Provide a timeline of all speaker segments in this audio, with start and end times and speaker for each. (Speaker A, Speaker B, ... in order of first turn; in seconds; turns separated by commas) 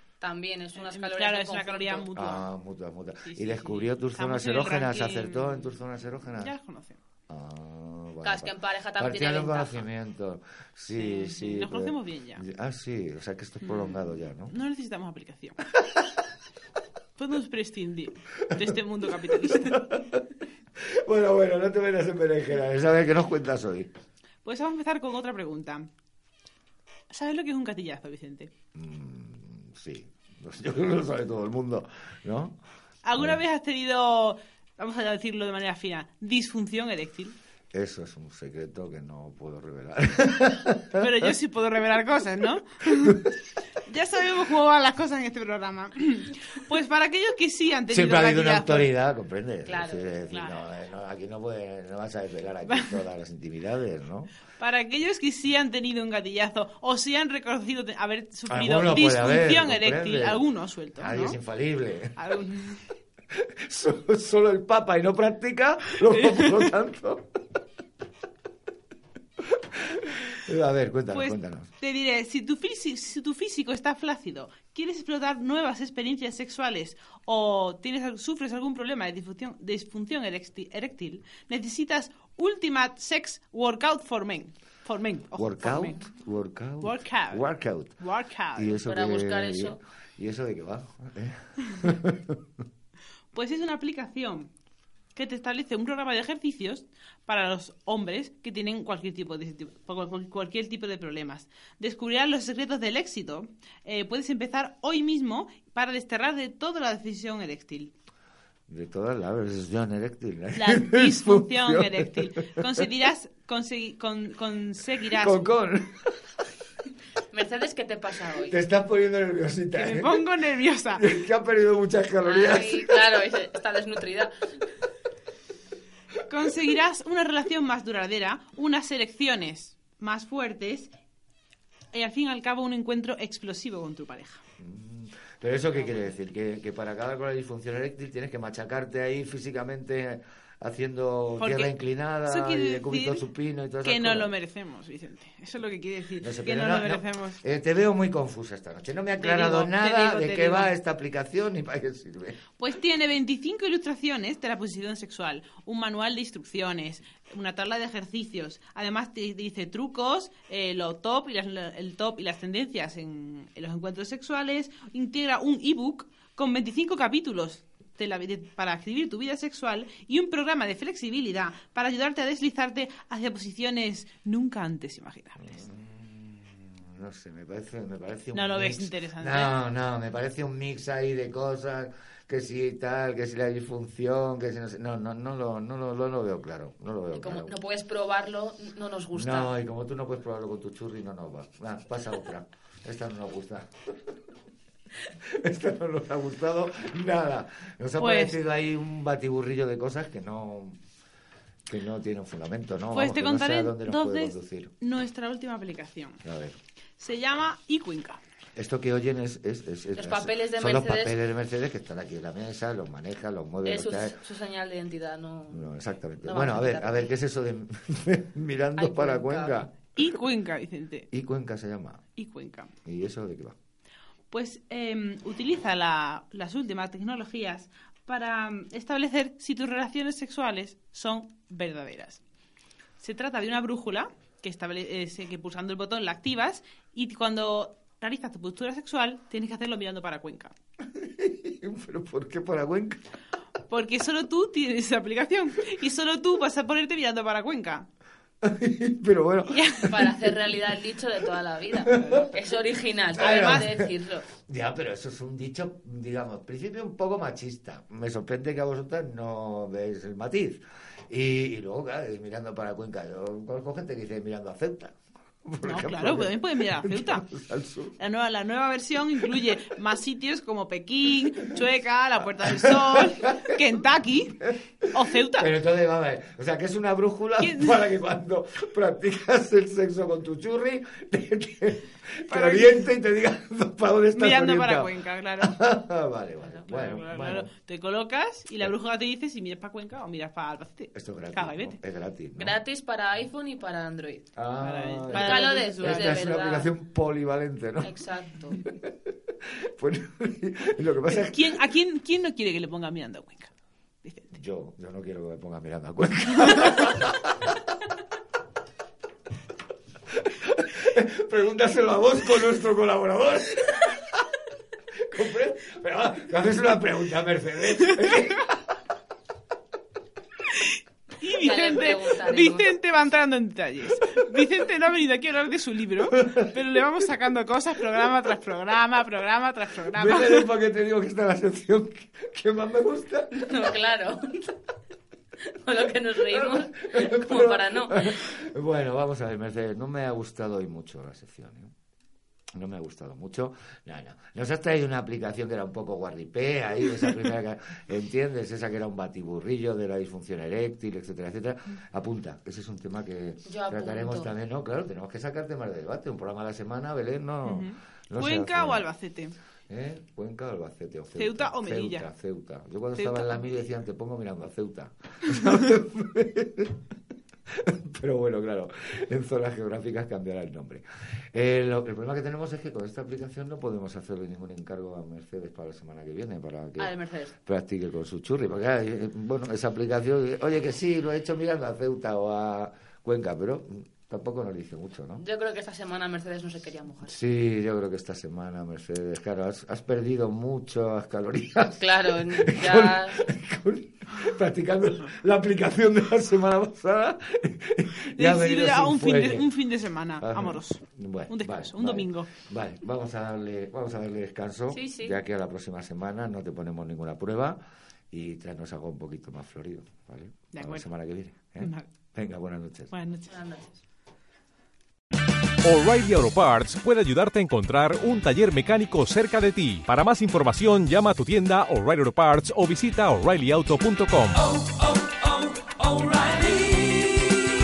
Speaker A: 0.2-2.1, Speaker B: 0.7-2.5, Speaker C: 2.1-6.5, Speaker B: 3.2-7.0, Speaker C: 7.3-14.5, Speaker A: 8.2-9.8, Speaker B: 11.0-12.4, Speaker B: 13.6-15.7, Speaker B: 17.1-20.0, Speaker C: 18.5-20.2, Speaker C: 20.8-23.9, Speaker B: 24.4-25.9, Speaker B: 27.1-28.5, Speaker C: 28.7-32.6, Speaker B: 33.0-37.4, Speaker C: 33.1-33.4, Speaker C: 37.7-41.3, Speaker B: 41.0-43.3, Speaker B: 43.8-48.9, Speaker C: 47.9-54.3, Speaker A: 49.6-50.6, Speaker B: 52.6-53.0, Speaker B: 54.6-61.4, Speaker C: 58.5-62.1, Speaker B: 62.1-62.9, Speaker C: 63.3-67.2, Speaker B: 66.1-66.6, Speaker C: 69.5-71.7, Speaker B: 71.1-86.1, Speaker C: 85.3-88.0, Speaker B: 86.8-88.8, Speaker C: 88.5-92.4, Speaker A: 88.8-89.8, Speaker B: 93.3-94.5, Speaker B: 95.1-107.9, Speaker C: 108.7-112.8, Speaker B: 110.5-115.4, Speaker C: 115.1-116.3, Speaker A: 117.3-118.5, Speaker C: 118.4-120.3, Speaker B: 119.7-121.0, Speaker C: 120.9-123.0, Speaker A: 122.2-124.3, Speaker B: 126.2-130.9, Speaker B: 131.9-134.4, Speaker C: 134.6-144.3, Speaker B: 141.4-141.7, Speaker B: 142.2-143.2, Speaker B: 143.8-147.4, Speaker C: 146.2-152.4, Speaker B: 149.2-150.7, Speaker B: 152.6-175.6, Speaker C: 175.4-187.5, Speaker B: 178.3-179.6, Speaker A: 187.1-189.5, Speaker C: 189.1-193.7, Speaker C: 195.1-200.8, Speaker B: 198.0-198.4, Speaker C: 201.7-204.7, Speaker B: 202.9-206.2, Speaker C: 206.2-206.6, Speaker B: 207.0-208.2, Speaker C: 208.6-214.2, Speaker A: 210.0-211.2, Speaker A: 213.6-217.1, Speaker C: 215.5-219.8, Speaker A: 218.8-219.7, Speaker B: 219.9-221.1, Speaker C: 221.1-222.0, Speaker B: 222.2-222.7, Speaker C: 222.8-223.5, Speaker B: 224.3-232.2, Speaker B: 233.0-240.5, Speaker C: 240.9-243.0, Speaker B: 243.7-247.9, Speaker C: 248.4-250.1, Speaker B: 249.4-250.1, Speaker A: 249.9-254.3, Speaker B: 251.8-252.4, Speaker C: 253.1-267.9, Speaker B: 253.2-253.7, Speaker B: 265.6-267.2, Speaker B: 268.0-275.5, Speaker C: 272.3-273.5, Speaker C: 275.3-287.5, Speaker B: 277.4-277.8, Speaker B: 282.3-282.9, Speaker B: 284.1-285.6, Speaker B: 286.7-291.8, Speaker C: 290.9-292.5, Speaker A: 292.4-294.3, Speaker C: 294.3-297.9, Speaker B: 294.6-296.2, Speaker A: 295.1-296.7, Speaker A: 297.8-298.6, Speaker C: 298.6-301.7, Speaker B: 301.1-303.5, Speaker B: 304.0-304.4, Speaker C: 304.3-307.5, Speaker C: 310.1-314.0, Speaker C: 315.1-318.6, Speaker B: 320.5-330.5, Speaker A: 321.3-322.7, Speaker C: 329.9-333.5, Speaker A: 333.3-334.5, Speaker A: 335.4-338.2, Speaker C: 336.3-341.7, Speaker C: 342.6-358.9, Speaker A: 353.4-354.3, Speaker B: 357.4-359.4, Speaker C: 359.7-366.8, Speaker B: 361.1-362.1, Speaker B: 362.9-363.5, Speaker C: 367.5-385.2, Speaker A: 376.8-377.3, Speaker A: 385.2-387.1, Speaker C: 387.0-399.5, Speaker A: 391.8-393.2, Speaker B: 398.1-402.3, Speaker C: 400.2-407.6, Speaker A: 404.7-405.2, Speaker C: 408.1-412.9, Speaker B: 410.5-410.9, Speaker B: 411.6-411.9, Speaker B: 412.9-413.4, Speaker A: 413.3-413.8, Speaker D: 415.6-424.6, Speaker D: 426.0-426.7